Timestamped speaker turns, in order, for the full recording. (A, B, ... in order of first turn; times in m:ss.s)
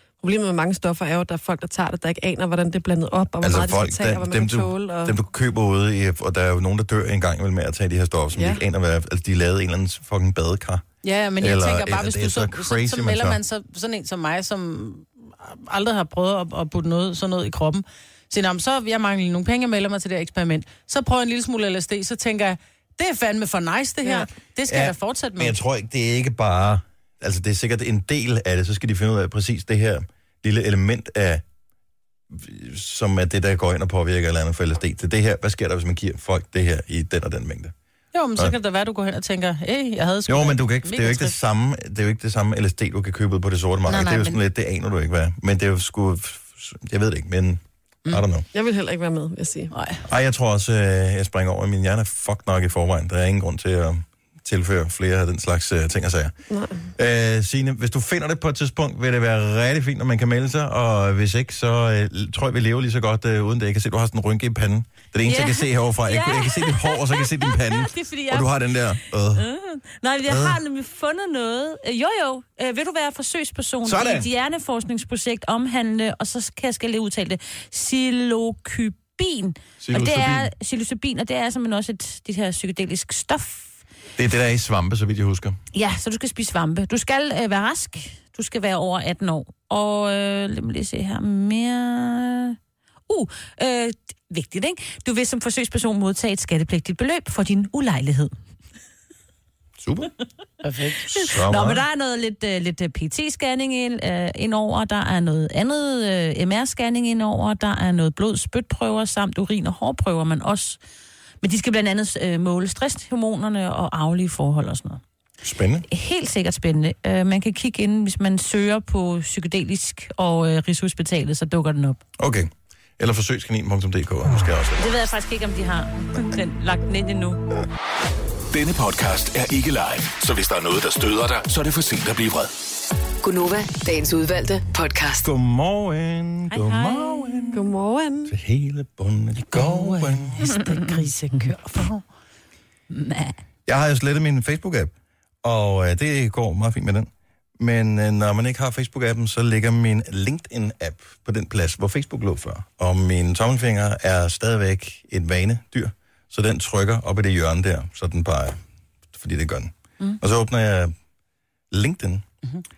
0:00.2-0:05.2 A
0:03.4-0:10.9 B
0:08.4-0:08.6 A
0:11.0-0:25.6 C
0:11.4-0:13.4 B
0:24.7-0:31.4 B
0:32.3-0:37.7 B
0:38.1-0:41.4 C
0:40.3-0:48.5 B
0:43.9-0:44.4 C
0:48.5-0:49.7 A
0:49.7-0:50.0 C
0:50.1-0:56.3 B
0:56.5-0:56.9 A
0:57.0-1:09.5 B
1:05.2-1:08.6 D
1:09.4-1:23.8 D
1:10.2-1:10.6 B
1:13.8-1:14.3 B
1:19.8-1:20.5 B
1:24.2-1:25.6 B
1:25.7-1:32.6 D
1:33.1-1:38.3 D
1:39.8-1:40.1 B
1:40.6-1:41.0 C
1:41.1-1:41.8 B
1:41.1-1:50.8 D
1:51.4-1:55.0 D
1:55.4-1:55.8 B
1:55.9-2:02.0 D
2:02.2-2:04.9 B
2:04.8-2:07.4 D
2:08.5-2:12.5 E
2:13.2-2:15.3 F
2:15.2-2:17.6 B
2:16.5-2:17.6 D
2:17.5-2:18.3 A
2:18.3-2:20.4 B
2:19.4-2:22.0 C
2:22.9-2:23.4 D
2:23.6-2:24.9 B
2:25.4-2:38.6 B
2:39.1-2:40.9 B
2:41.7-2:42.2 B